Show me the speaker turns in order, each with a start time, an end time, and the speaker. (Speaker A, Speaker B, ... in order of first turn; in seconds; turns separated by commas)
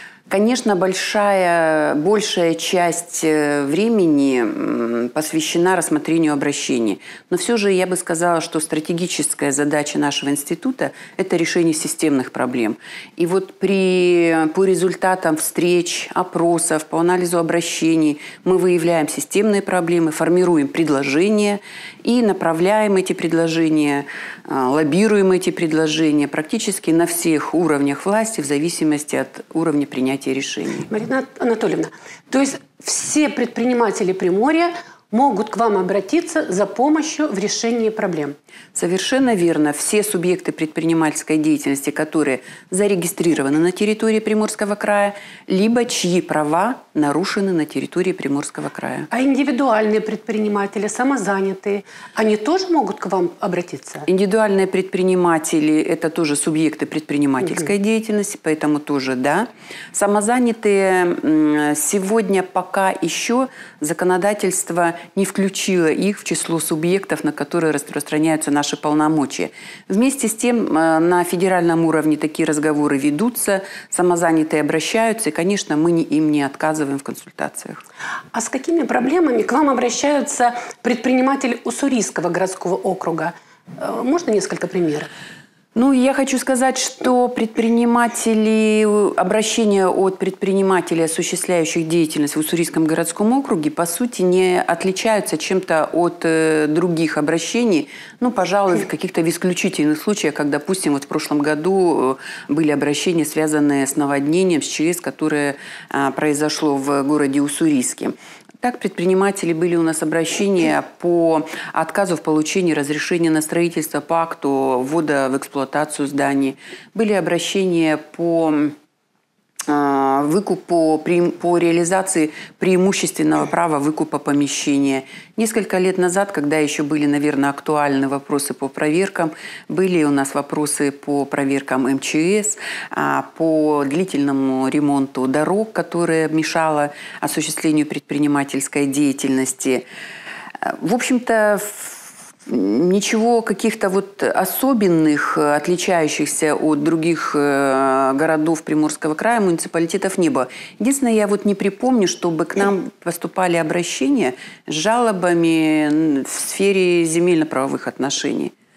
Speaker A: 0.3-30.9, Speaker B: 30.9-38.4, Speaker A: 38.7-49.1, Speaker B: 49.1-54.1, Speaker A: 54.1-77.8, Speaker B: 78.3-85.1, Speaker A: 85.8-118.8, Speaker A: 119.7-139.8, Speaker A: 140.6-158.5